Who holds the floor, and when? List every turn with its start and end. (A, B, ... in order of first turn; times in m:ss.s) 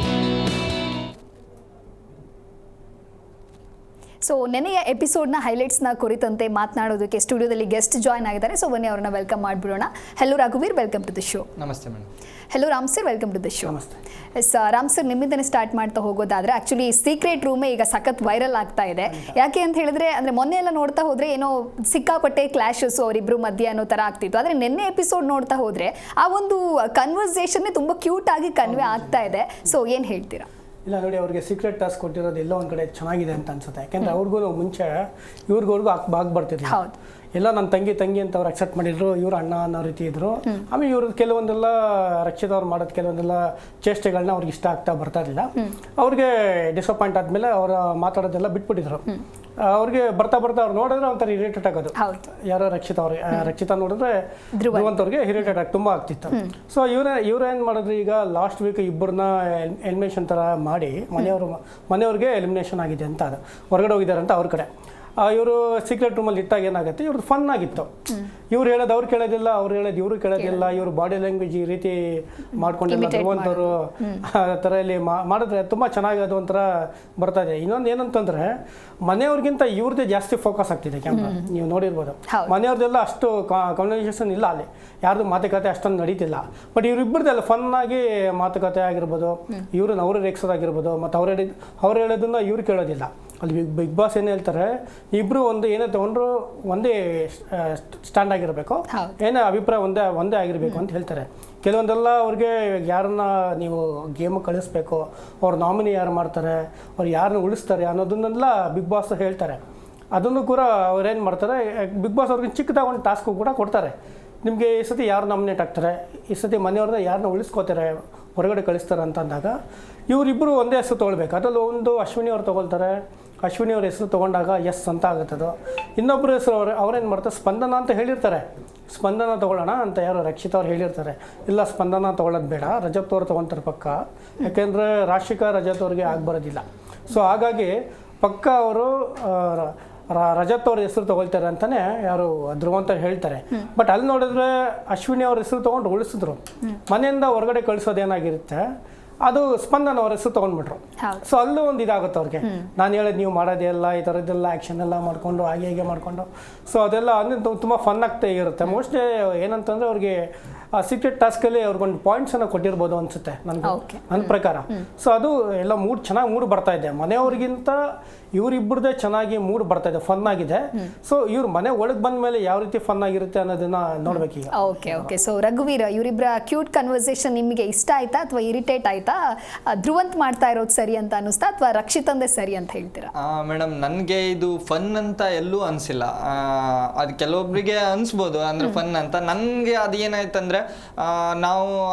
0:04.2-0:11.4 A
0:11.6-0:12.1 B
0:12.5-0:13.8 A
0:13.6-0:14.0 C
0:14.4-0:30.5 A
0:19.1-0:19.3 C
0:28.6-0:29.2 C
0:30.8-0:36.8 C
0:36.6-0:37.0 A
0:37.3-0:49.1 C
0:49.6-1:07.9 C
0:52.0-0:52.3 A
0:54.5-0:55.0 A
1:08.5-1:49.6 C
1:10.4-1:10.8 A
1:12.6-1:14.2 A
1:21.1-1:21.4 A
1:22.3-1:22.5 A
1:38.9-1:39.2 A
1:50.1-1:59.6 C
2:00.1-2:28.7 C
2:29.2-2:55.1 C
2:31.0-2:31.2 A
2:43.6-2:44.8 A
2:54.1-3:03.1 A
3:03.2-3:11.7 B